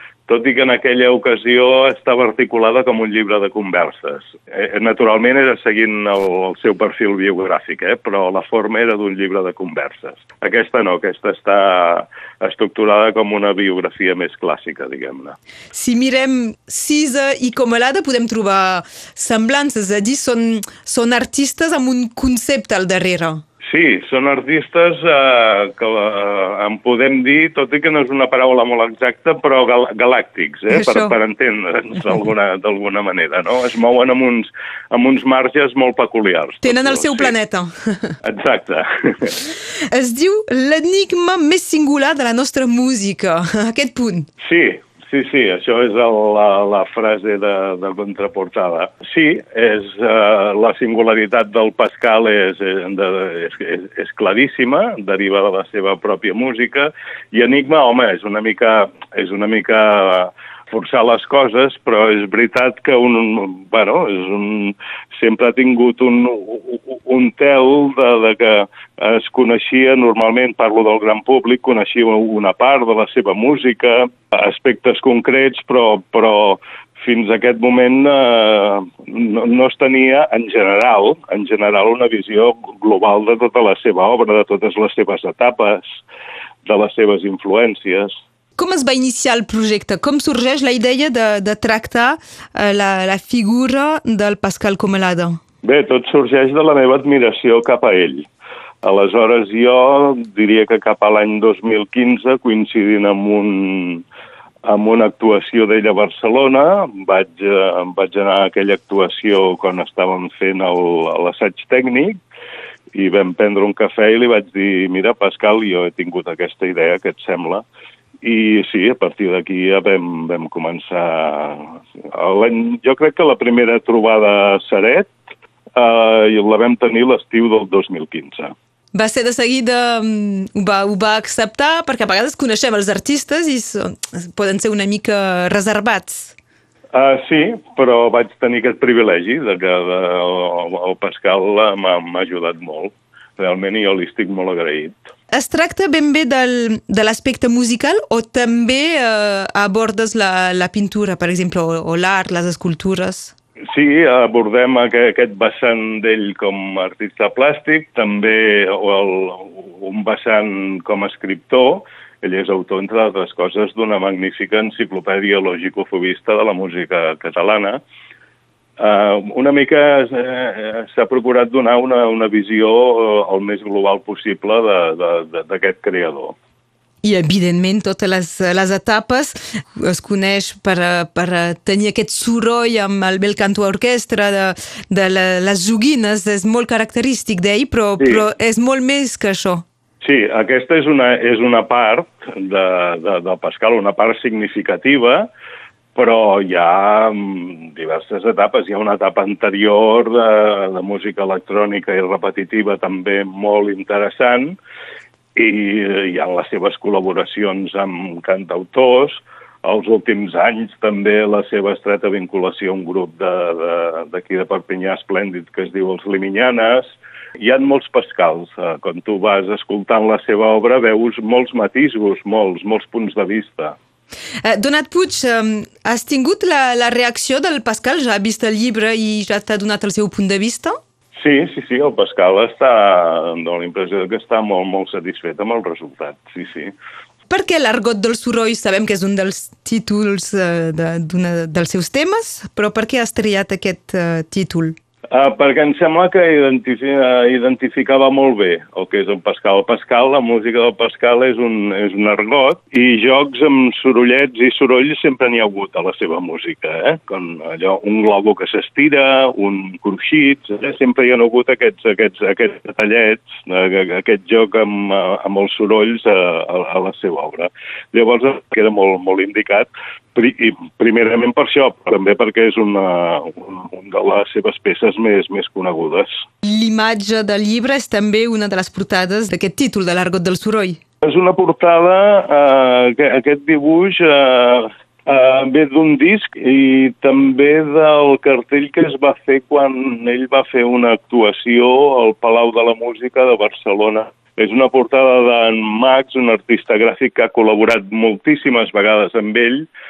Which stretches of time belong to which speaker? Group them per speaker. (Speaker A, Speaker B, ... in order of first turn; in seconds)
Speaker A: 0.3-15.4, 23.6-37.3, 38.2-39.4, 44.4-85.8, 86.6-88.1, 95.6-98.3, 98.8-104.0, 104.6-112.2, 112.9-117.7, 118.2-125.2, 125.7-128.5, 136.9-145.1, 153.7-167.8, 168.8-176.3, 188.0-188.2, 190.0-195.3, 195.9-204.6, 205.3-223.8, 231.2-236.7, 245.1-276.1, 281.0-299.7
Speaker B: 15.7-23.4, 30.7-31.1, 36.6-38.2, 39.6-44.3, 88.6-95.4, 128.9-136.3, 145.3-153.3, 177.0-189.6, 224.4-230.8, 237.3-244.7, 276.4-280.8